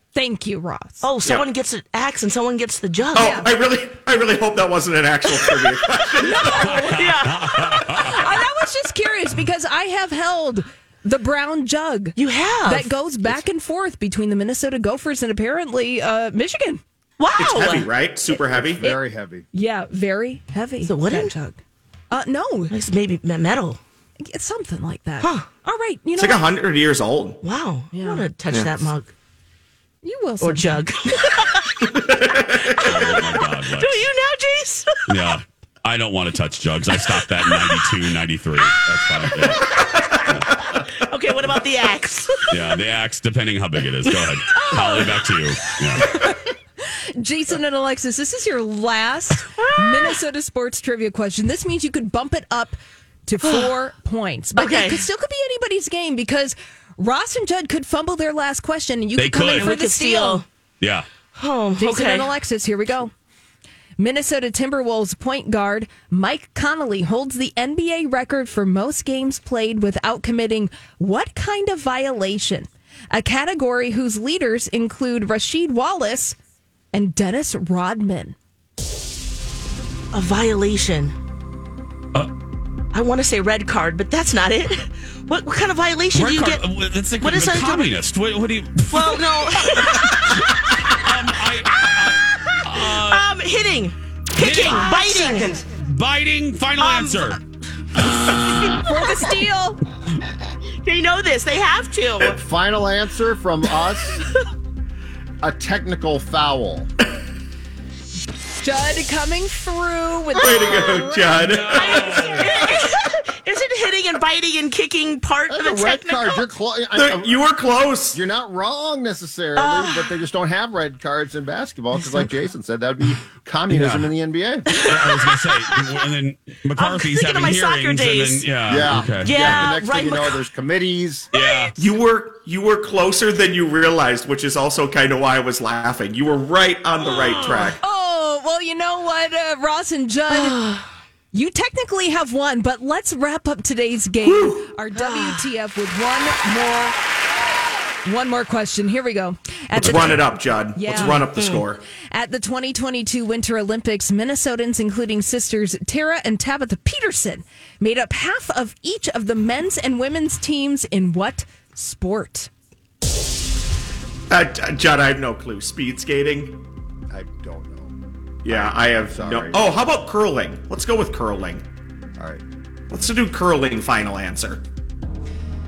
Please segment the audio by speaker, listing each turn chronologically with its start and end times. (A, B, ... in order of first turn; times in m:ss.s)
0:00.1-0:01.0 A
0:01.0-0:03.4 B
0:03.1-0:06.8 C
0:03.2-0:03.5 A
0:06.2-0:16.8 A
0:06.6-0:08.3 D
0:07.0-0:07.4 B
0:12.2-0:12.9 B
0:17.2-0:17.9 B
0:17.4-0:18.9 C
0:18.3-0:21.6 A
0:18.5-0:19.4 E
0:20.8-0:21.3 B
0:22.1-0:22.7 A
0:22.7-0:23.8 B
0:24.2-0:26.4 A
0:25.2-0:25.5 B
0:26.2-0:27.4 C
0:27.4-0:29.1 B
0:27.9-0:28.2 A
0:28.5-0:28.8 C
0:30.0-0:30.8 A
0:30.4-0:31.9 B
0:32.5-0:35.2 B
0:32.8-0:34.1 D
0:35.1-0:40.6 D
0:37.0-0:38.0 B
0:40.1-0:42.6 B
0:42.5-0:46.1 D
0:44.0-0:45.1 B
0:44.6-0:45.1 A
0:46.0-1:00.4 A
0:49.6-0:50.2 B
0:53.4-0:53.8 B
0:54.6-0:55.0 B
0:59.2-0:59.7 D
0:59.6-1:00.4 B
1:00.8-1:01.1 D
1:01.4-1:02.3 B
1:01.8-1:03.1 A
1:04.0-1:16.4 A
1:16.9-1:18.4 A
1:20.1-1:21.1 B
1:22.9-1:28.0 B
1:26.1-1:30.3 D
1:28.9-1:31.0 B
1:30.9-1:33.3 D
1:32.1-1:35.6 B
1:34.4-1:37.4 D
1:36.8-1:37.4 B
1:38.0-1:39.2 B
1:38.9-1:39.8 A
1:40.8-1:42.4 B
1:42.2-1:44.2 E
1:45.4-1:46.9 E
1:48.6-1:51.4 A
1:50.4-1:52.5 C
1:51.4-1:52.7 D
1:51.8-1:56.5 B
1:55.5-1:57.4 E
1:57.0-1:58.2 C
1:58.1-2:04.7 E
1:59.6-2:00.1 B
2:03.7-2:04.1 D
2:04.7-2:05.8 B
2:04.8-2:09.7 D
2:06.8-2:10.4 B
2:08.7-2:11.3 E
2:11.3-2:11.7 D
2:11.8-2:17.8 C
2:17.0-2:17.7 B
2:17.8-2:20.7 A
2:20.3-2:20.8 B
2:21.3-2:27.0 A
2:24.2-2:24.6 C
2:25.0-2:25.4 B
2:28.0-2:31.3 A
2:29.8-2:31.8 C
2:29.8-2:30.2 D
2:30.9-2:31.6 B
2:32.1-2:42.5 A
2:44.3-2:46.6 C
2:47.1-2:47.9 E
2:48.4-2:49.7 E
2:48.4-2:51.6 C
2:52.9-2:54.6 C